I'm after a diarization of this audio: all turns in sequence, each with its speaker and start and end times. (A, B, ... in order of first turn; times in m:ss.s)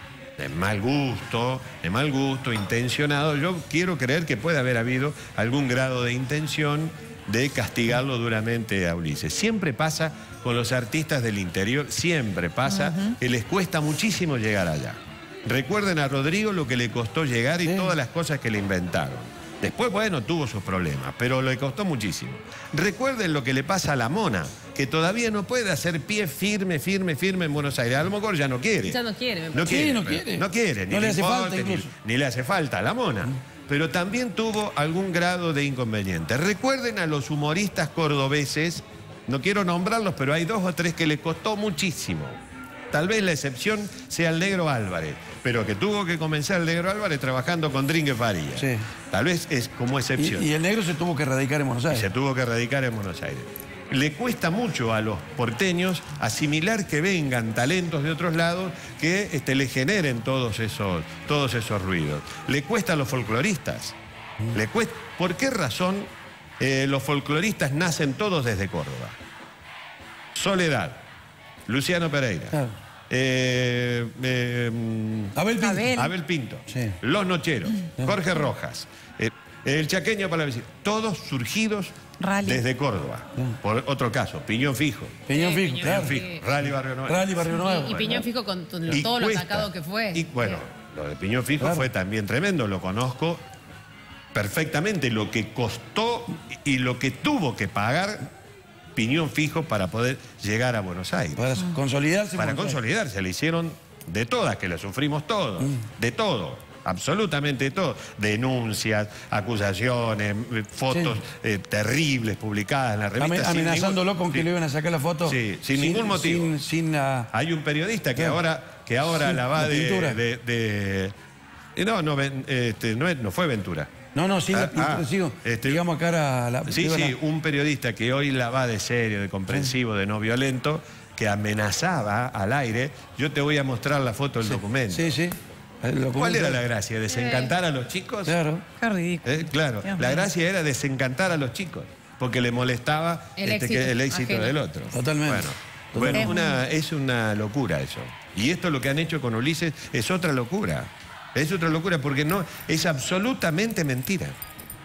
0:00.4-0:29.0 A
0:12.6-0:13.1 B
0:17.6-0:17.9 C
0:28.8-0:29.8 D
0:29.5-0:42.4 A
0:29.6-0:31.9 C
0:42.9-0:50.5 A
0:48.6-0:48.9 C
0:50.2-0:52.1 C
0:51.9-1:04.0 A
1:04.5-1:06.1 A
1:06.6-1:09.2 A
1:10.3-1:11.0 A
1:11.7-1:12.6 A
1:13.1-1:15.4 A
1:15.3-1:16.0 C
1:15.6-1:16.1 B
1:15.9-1:25.2 A
1:16.7-1:17.0 C
1:22.2-1:22.6 B
1:25.3-1:26.2 C
1:25.3-1:26.4 D
1:25.8-1:27.3 A
1:27.0-1:28.2 C
1:27.5-1:30.6 D
1:28.8-1:33.4 A
1:31.6-1:31.9 C
1:34.3-1:38.3 A
1:39.0-1:41.5 A
1:41.4-1:42.8 C
1:42.4-1:54.5 A
1:50.9-1:51.2 C
1:53.2-1:57.3 C
1:55.2-1:56.5 A
1:57.3-2:01.1 A
1:59.0-2:00.2 C
2:01.8-2:03.9 A
2:04.1-2:07.2 C
2:04.5-2:05.8 A
2:06.6-2:15.2 A
2:14.4-2:16.6 C
2:16.1-2:18.4 A
2:17.1-2:17.5 D
2:18.2-2:18.6 C
2:18.8-2:20.3 B
2:19.2-2:34.4 A
2:23.4-2:24.5 D
2:24.9-2:26.3 C
2:26.1-2:26.6 B